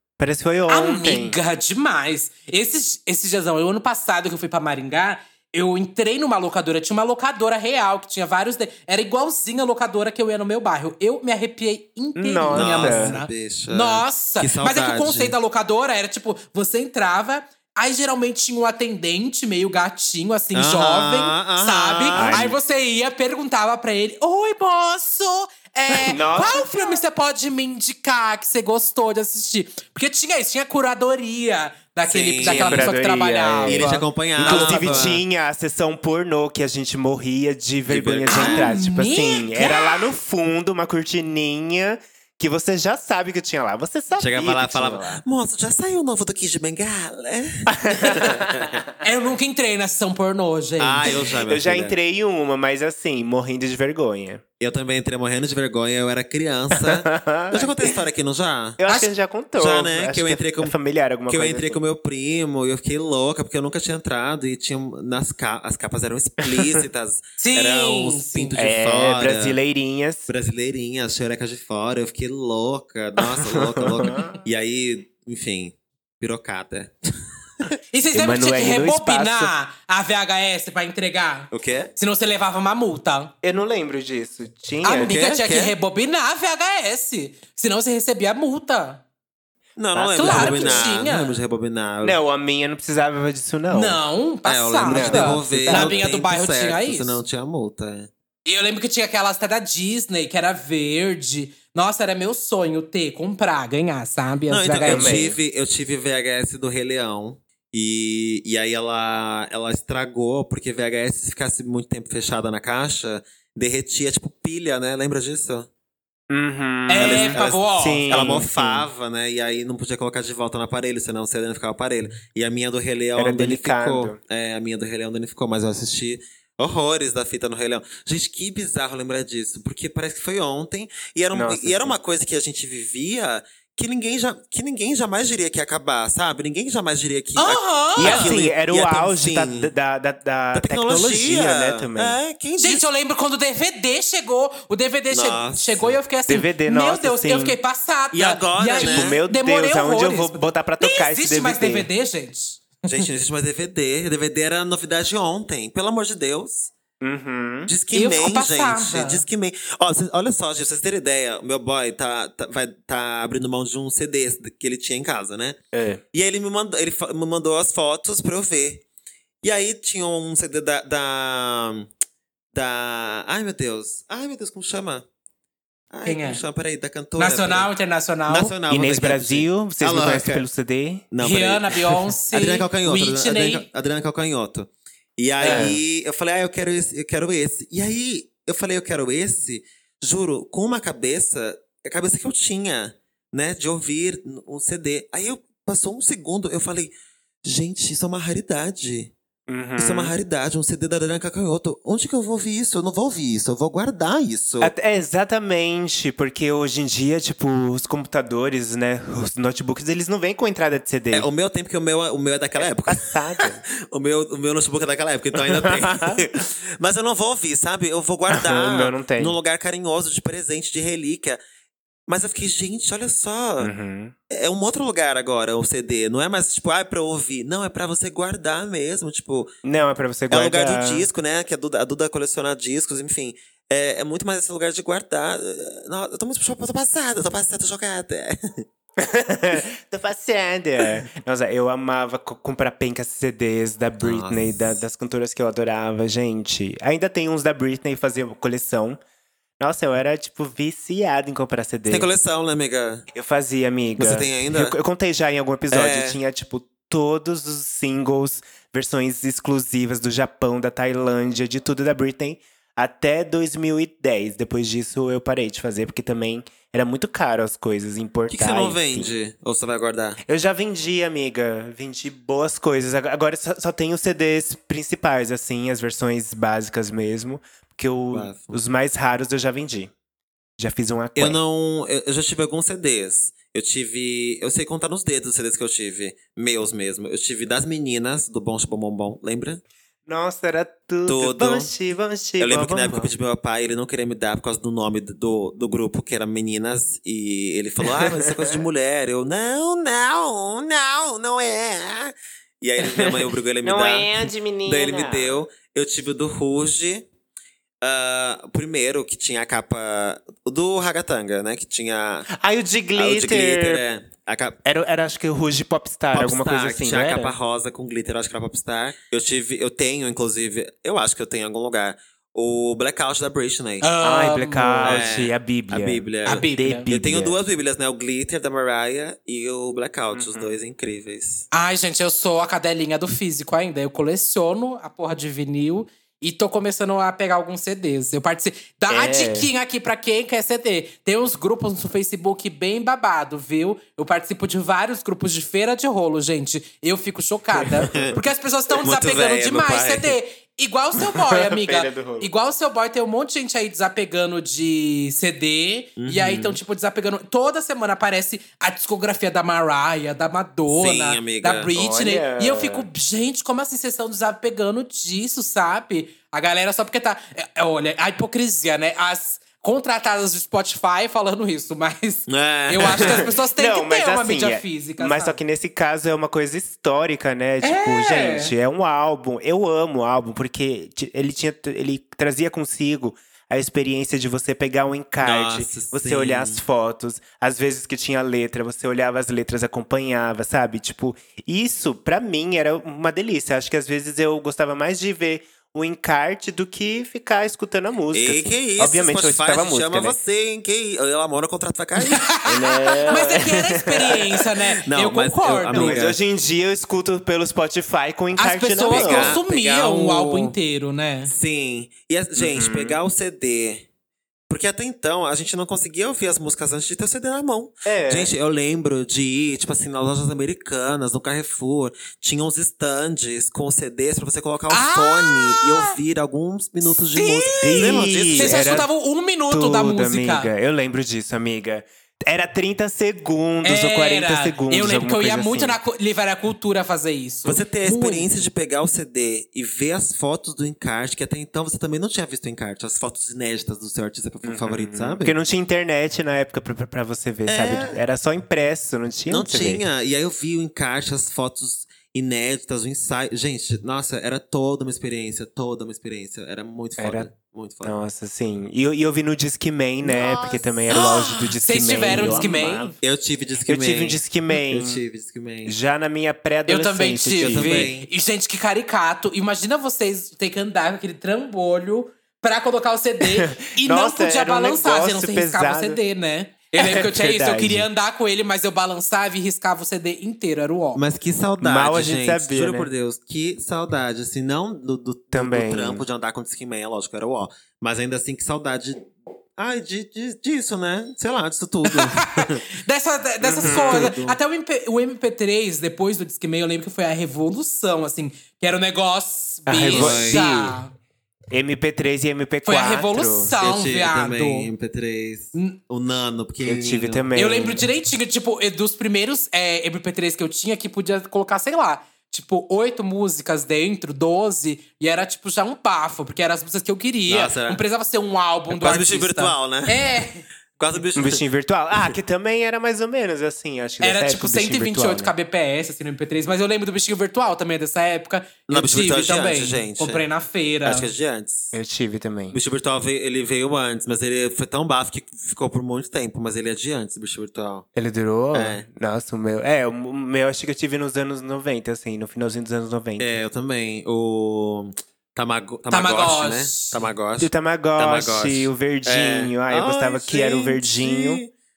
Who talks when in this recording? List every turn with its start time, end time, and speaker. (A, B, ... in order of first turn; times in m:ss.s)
0:00.2-0:01.4 A
0:00.7-0:35.2 B
0:12.2-0:13.2 A
0:12.5-0:15.4 C
0:20.5-0:22.5 C
0:22.2-0:22.6 A
0:25.9-0:26.7 A
0:32.1-0:32.9 C
0:32.4-0:45.2 A
0:33.6-0:35.2 C
0:37.9-0:38.7 C
0:38.3-0:40.1 B
0:44.2-0:48.8 C
0:47.7-0:48.8 A
0:49.0-0:51.2 B
0:50.8-0:52.0 C
0:51.3-0:54.4 A
0:54.6-0:58.8 C
0:56.8-0:58.0 A
0:58.8-1:01.8 A
0:59.6-1:00.7 C
1:01.3-1:09.6 C
1:06.4-1:06.8 A
1:07.4-1:08.6 B
1:08.6-1:10.3 A
1:10.3-1:16.9 C
1:13.2-1:14.4 A
1:17.9-1:23.3 B
1:18.1-1:19.5 A
1:21.5-1:21.9 C
1:23.4-1:25.2 A
1:24.8-1:29.0 B
1:25.0-1:25.7 C
1:29.8-1:32.2 C
1:29.9-1:31.0 A
1:30.2-1:31.4 B
1:32.0-1:34.0 A
1:33.7-1:37.2 B
1:34.4-1:38.1 C
1:34.8-1:36.1 A
1:38.5-1:45.2 B
1:44.5-1:55.7 C
1:44.8-1:45.4 A
1:56.3-1:58.9 A
1:56.9-1:58.4 B
1:57.0-2:19.7 C
2:03.2-2:04.2 A
2:11.3-2:12.0 A
2:17.4-2:18.3 B
2:18.0-2:22.2 A
2:20.5-2:22.8 C
2:22.6-2:32.8 B
2:25.1-2:26.0 C
2:26.3-2:27.6 A
2:28.1-2:29.2 C
2:28.8-2:31.9 A
2:32.9-2:36.7 C
2:37.0-2:37.7 A
2:37.7-2:45.6 C
2:37.9-2:39.2 B
2:45.7-2:46.0 A
2:46.1-2:48.8 C
2:49.4-2:51.9 C
2:52.5-2:55.0 C
2:55.9-2:57.7 C
2:56.0-2:56.4 B
2:57.2-2:58.6 B
2:58.3-3:00.4 C
2:58.7-3:01.1 A
3:01.1-3:19.1 C
3:01.2-3:03.7 B
3:05.4-3:05.7 B
3:05.4-3:05.8 A
3:19.5-3:20.2 A
3:19.8-3:24.7 C
3:24.6-3:31.3 A
3:31.1-3:41.4 C
3:32.9-3:33.6 A
3:35.4-3:36.2 A
3:38.3-3:39.4 A
3:42.1-3:43.7 C
3:43.6-3:44.1 A
3:44.3-3:49.5 C
3:49.6-3:51.1 A
3:50.3-3:58.4 C
3:59.0-4:09.0 A
4:04.0-4:04.7 C
4:09.6-4:12.1 A
4:11.9-4:13.1 C
4:13.1-4:29.1 A
4:14.0-4:14.8 C
4:15.7-4:16.2 C
4:28.3-4:30.2 C
4:30.2-4:39.9 A
4:38.1-4:38.6 C
4:40.6-4:41.4 A
4:41.2-4:49.6 C
4:50.1-4:53.1 A
4:51.1-4:51.7 C
4:52.4-5:07.1 C
4:57.8-4:58.6 A
5:03.6-5:05.4 A
5:07.8-5:12.3 C
5:12.3-5:13.8 A
5:13.0-5:14.6 C
5:14.6-5:17.4 A
5:16.1-5:23.9 C
5:23.8-5:25.0 B
5:24.0-5:27.4 A
5:24.8-5:31.4 C
5:26.3-5:26.9 B
5:30.1-5:30.5 A
5:31.5-6:15.4 B
5:38.9-5:39.5 A
5:47.6-5:48.1 A
5:47.8-5:48.2 C
5:48.8-5:50.2 C
5:51.1-5:52.3 A
5:56.0-5:56.6 C
6:00.7-6:01.7 C
6:01.8-6:02.9 A
6:12.3-6:13.3 C
6:13.0-6:40.2 A
6:17.6-6:18.5 B
6:25.2-6:26.6 C
6:38.1-6:42.3 C
6:42.0-6:46.0 B
6:42.5-6:44.5 A
6:44.9-6:46.2 C
6:45.7-6:50.6 A
6:48.4-6:51.3 B
6:48.9-6:49.4 C
6:51.3-6:53.9 C
6:52.4-6:53.0 A
6:54.5-7:08.9 C
6:57.8-6:58.3 A
7:04.7-7:06.0 B
7:06.9-7:10.5 B
7:07.6-7:08.9 A
7:09.5-7:15.8 A
7:13.6-7:18.3 B
7:17.4-7:25.4 C
7:24.4-7:29.8 A
7:27.5-7:28.0 C
7:29.3-7:38.0 C
7:37.0-7:37.3 A
7:37.8-7:43.0 A
7:40.2-7:40.6 C
7:40.9-7:42.9 B
7:42.0-7:45.8 C
7:43.7-7:45.0 A
7:45.6-7:47.9 A
7:46.7-8:01.0 B
7:47.4-7:48.1 C
7:53.2-7:56.0 A
7:56.8-7:57.9 A
8:01.0-8:12.7 C
8:01.6-8:02.9 A
8:05.3-8:06.0 A
8:11.9-8:20.9 B
8:13.4-8:14.2 A
8:13.6-8:14.4 C
8:19.7-8:20.8 A
8:19.9-8:20.5 C
8:21.5-8:23.6 A
8:22.7-8:24.7 B
8:23.6-8:27.3 C
8:26.6-8:27.9 A
8:27.4-8:40.4 B
8:37.3-8:37.8 C
8:38.7-8:40.2 C
8:40.8-8:41.4 C
8:41.2-8:45.3 A
8:44.0-8:51.1 B
8:48.7-8:50.2 C
8:50.8-8:51.8 C
8:51.7-8:52.6 A
8:52.5-8:57.9 C
8:58.0-9:03.4 A
8:58.5-8:58.8 C
9:03.2-9:11.5 C
9:05.9-9:07.0 B
9:07.4-9:11.4 A